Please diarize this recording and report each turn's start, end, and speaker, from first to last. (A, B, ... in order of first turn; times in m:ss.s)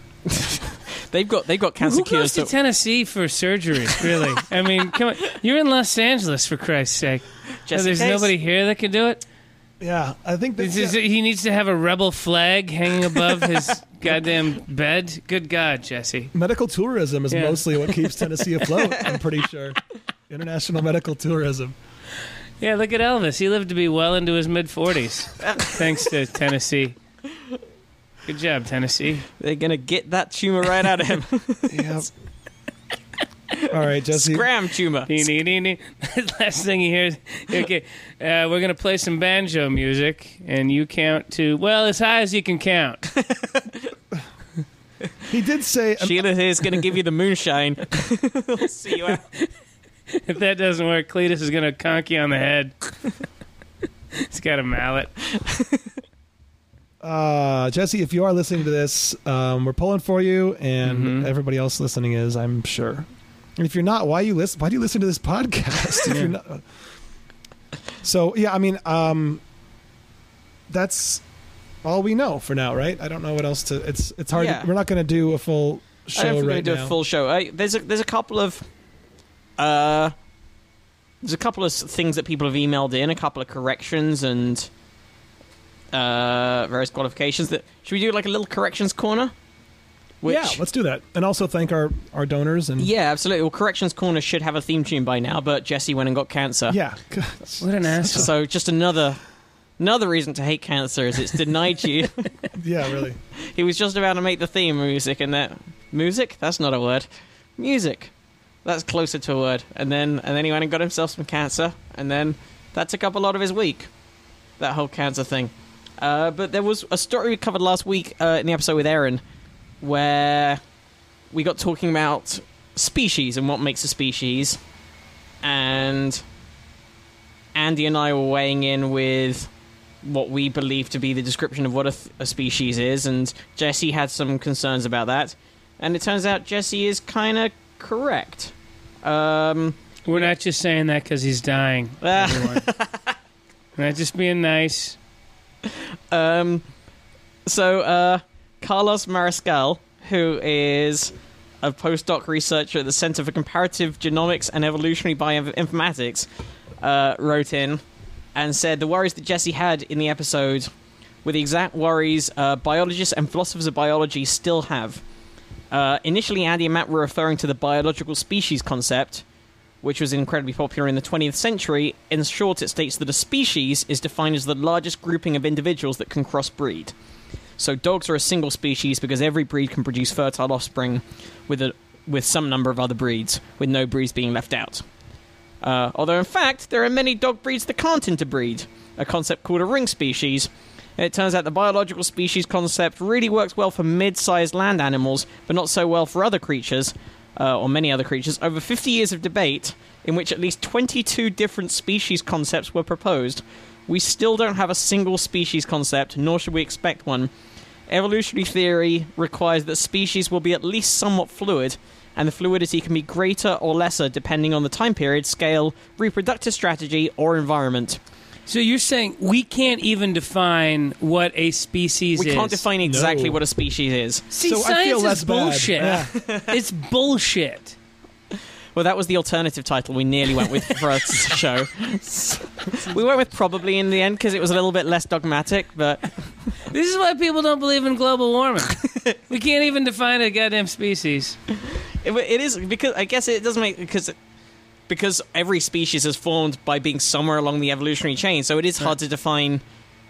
0:00.3-0:02.5 A
0:01.8-0:09.2 B
0:07.7-0:08.3 A
0:09.8-0:11.0 C
0:10.6-0:16.3 B
0:16.3-0:21.8 C
0:17.3-0:18.0 B
0:22.6-0:27.0 B
0:25.4-0:25.8 A
0:28.3-0:29.3 B
0:29.4-0:32.0 A
0:31.7-0:32.1 C
0:33.6-0:35.3 A
0:33.7-0:34.5 C
0:35.1-0:43.1 B
0:43.2-0:43.8 A
0:45.3-0:46.2 C
0:46.0-0:49.2 A
0:50.1-0:52.9 B
0:54.2-0:55.1 B
0:57.0-1:06.7 C
1:00.8-1:01.3 B
1:08.0-1:09.4 C
1:10.7-1:11.2 C
1:11.8-1:17.0 C
1:14.4-1:14.7 A
1:16.2-1:18.6 A
1:19.6-1:20.1 A
1:21.2-1:24.7 A
1:25.9-1:29.3 A
1:30.2-1:30.6 A
1:30.3-1:32.9 C
1:32.8-1:36.8 A
1:36.7-1:38.3 C
1:37.6-1:38.3 B
1:38.1-1:39.2 A
1:39.8-1:42.3 A
1:42.5-1:43.2 C
1:43.4-1:48.1 A
1:48.6-1:53.9 A
1:54.6-1:59.2 A
1:59.8-2:00.6 A
2:01.3-2:04.6 A
2:05.4-2:06.2 A
2:07.6-2:09.5 A
2:10.0-2:20.3 A
2:20.1-2:22.7 B
2:22.0-2:23.2 A
2:23.8-2:25.0 B
2:25.7-2:26.7 A
2:27.5-2:36.3 A
2:36.8-2:37.8 A
2:38.4-2:40.7 A
2:41.2-2:45.0 A
2:45.7-2:49.2 A
2:49.8-2:56.9 A
2:57.6-3:04.8 A
3:05.6-3:27.3 A
3:27.9-3:38.0 A
3:38.5-3:42.6 B
3:42.2-3:44.2 A
3:42.8-3:43.4 C
3:44.3-3:47.8 B
3:44.4-3:46.1 C
3:45.8-3:46.6 A
3:48.8-3:56.2 A
3:56.7-4:01.4 B
4:01.7-4:04.2 A
4:04.9-4:09.6 A